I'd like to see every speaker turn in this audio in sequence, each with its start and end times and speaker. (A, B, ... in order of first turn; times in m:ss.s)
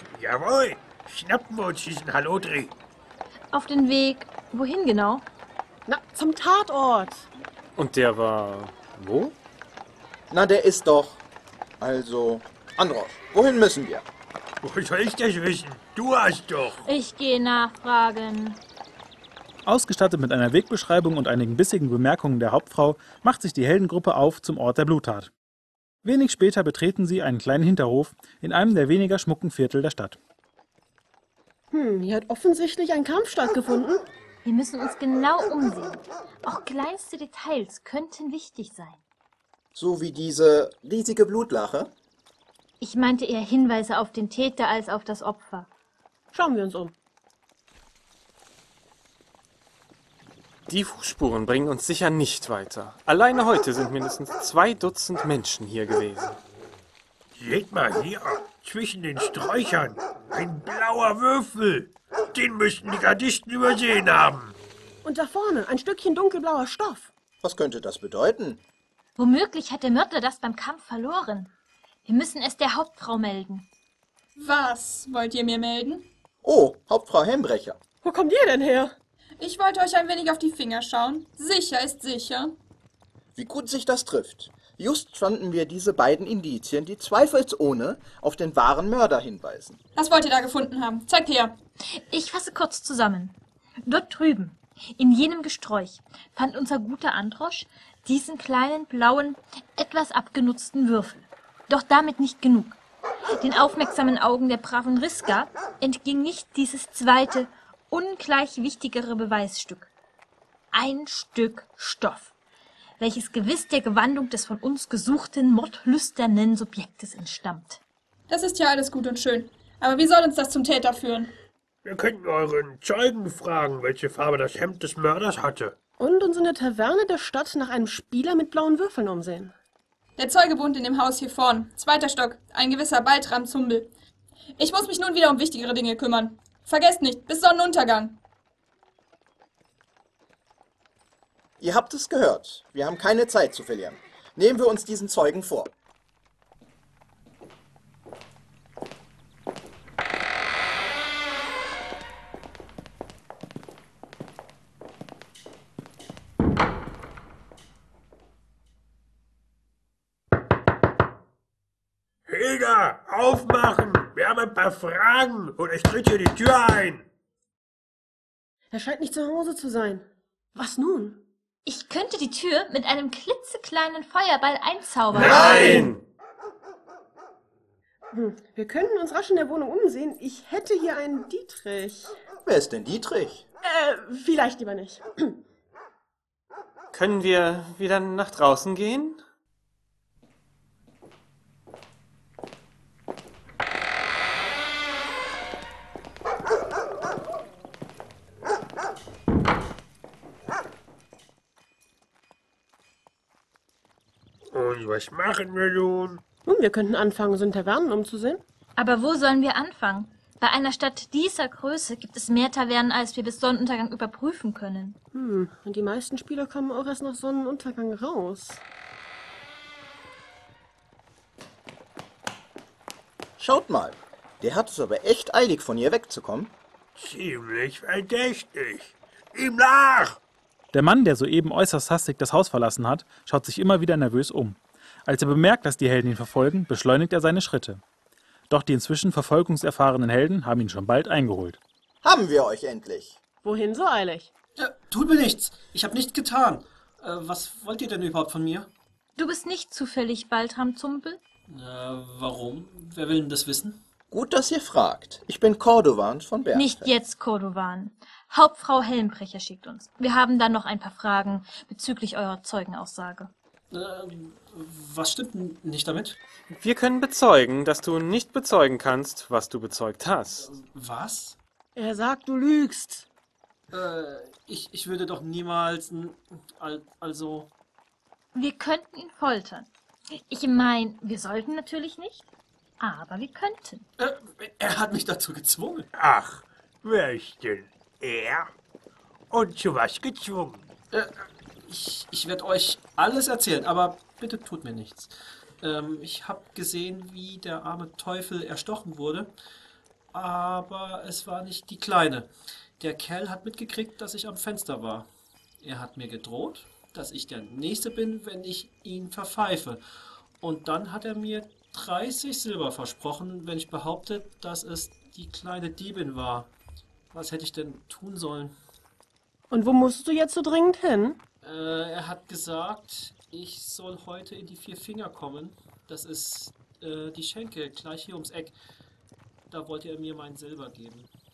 0:00.1-0:02.7 A
0:03.5-0:05.2 B
0:05.9-0:07.2 C
0:07.8-0:09.3 D
0:10.3-0:11.2 E
0:11.8-0:14.0 E
0:14.6-0:16.8 A
0:16.8-0:18.6 B
0:19.6-0:25.3 F
0:26.0-0:30.2 F
0:31.7-0:34.0 C
0:34.4-0:39.0 B
0:39.7-0:41.9 E
0:42.8-0:45.7 B
0:46.3-0:46.9 C
0:50.7-0:56.4 D
0:57.4-1:04.6 A
1:05.0-1:07.1 C
1:07.4-1:08.6 E
1:09.2-1:11.5 B
1:12.0-1:13.7 B
1:14.4-1:16.1 G
1:16.4-1:17.8 E
1:18.0-1:18.9 C
1:19.4-1:22.5 G
1:23.4-1:29.8 E
1:30.0-1:31.5 G
1:32.0-1:42.8 B
1:43.4-1:49.9 B
1:50.7-1:52.3 B
1:53.0-1:57.8 B
1:58.3-2:01.3 G
2:01.8-2:05.7 A
2:06.0-2:09.5 C
2:10.2-2:13.9 G
2:14.6-2:18.2 G
2:21.6-2:25.7 E
2:42.3-2:47.0 A
2:48.7-2:51.2 C
2:51.6-2:55.5 B
2:55.1-2:56.0 D
2:55.2-2:56.0 A
2:55.5-2:55.9 C
2:58.1-3:02.1 C
3:02.4-3:03.4 E
3:03.6-3:05.4 C
3:06.9-3:09.2 D
3:24.5-3:26.2 A
3:26.4-3:28.4 C
3:28.8-3:35.0 B
3:35.1-3:38.6 C
3:43.4-3:46.5 E
3:46.9-3:50.2 A
3:50.7-3:57.8 F
3:58.5-4:01.6 F
4:02.0-4:03.2 E
4:03.4-4:04.3 C
4:04.6-4:08.7 H
4:09.2-4:11.2 B
4:11.5-4:13.8 H
4:14.1-4:16.9 E
4:16.5-4:23.3 B
4:23.7-4:26.2 H
4:26.5-4:30.5 D
4:30.4-4:31.4 H
4:31.8-4:33.0 C
4:33.7-4:37.5 H
4:38.3-4:39.7 B
4:40.3-4:42.2 B
4:42.8-4:43.8 B
4:44.0-4:45.9 H
4:45.9-4:48.5 A
4:49.3-4:50.6 A
4:51.6-4:59.3 H
5:00.1-5:05.1 H
5:05.6-5:09.8 H
5:10.4-5:16.5 H
5:17.1-5:18.6 H
5:19.5-5:21.2 C
5:21.4-5:28.5 H
5:29.5-5:31.1 H